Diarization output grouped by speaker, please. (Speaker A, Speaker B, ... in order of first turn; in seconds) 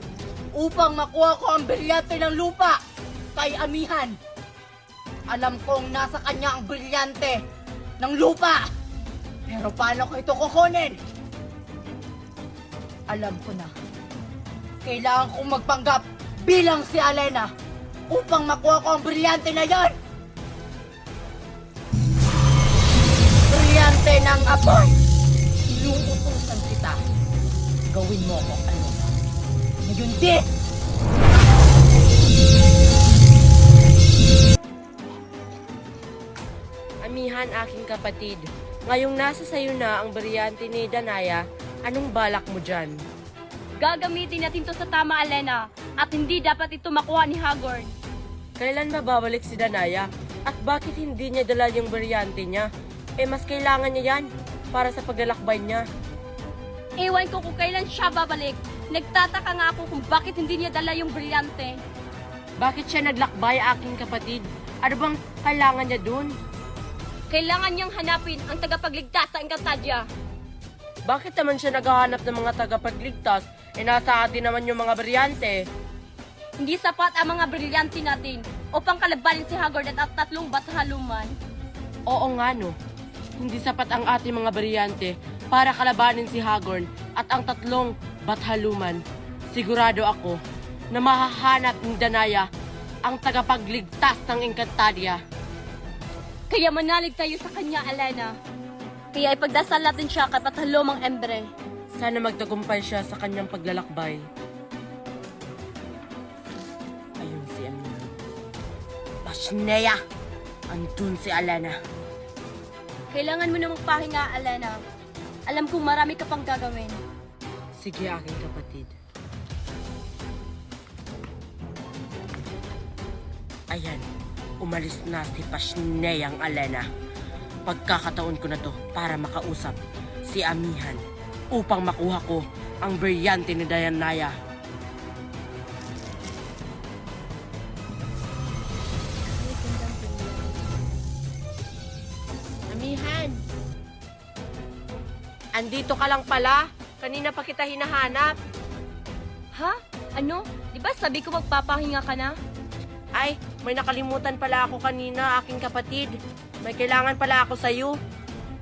Speaker A: 0.5-2.8, 3.3-4.2, 5.3-7.4, 8.0-8.6, 9.5-11.0, 13.1-13.7, 14.8-17.5, 18.1-19.9, 23.5-24.9, 25.7-27.0, 27.9-29.0, 29.8-30.4
Speaker B: 37.0-42.9, 48.6-52.7, 53.2-55.8, 62.6-66.3, 71.1-75.6, 82.1-82.7, 83.4-89.0, 89.5-90.4, 90.9-92.5, 93.0-95.2, 102.0-104.2, 107.2-108.1, 109.2-110.0, 110.7-111.7, 117.8-118.9, 123.7-124.0, 124.6-126.8, 127.7-129.8, 130.3-131.0, 131.5-134.3, 142.7-143.4, 145.5-148.3, 153.2-157.9
Speaker C: 43.8-47.9, 57.0-61.8, 67.3-70.0, 76.6-81.3, 96.5-98.3, 99.1-101.5, 113.1-114.8, 115.5-117.0, 139.4-140.6, 149.5-152.3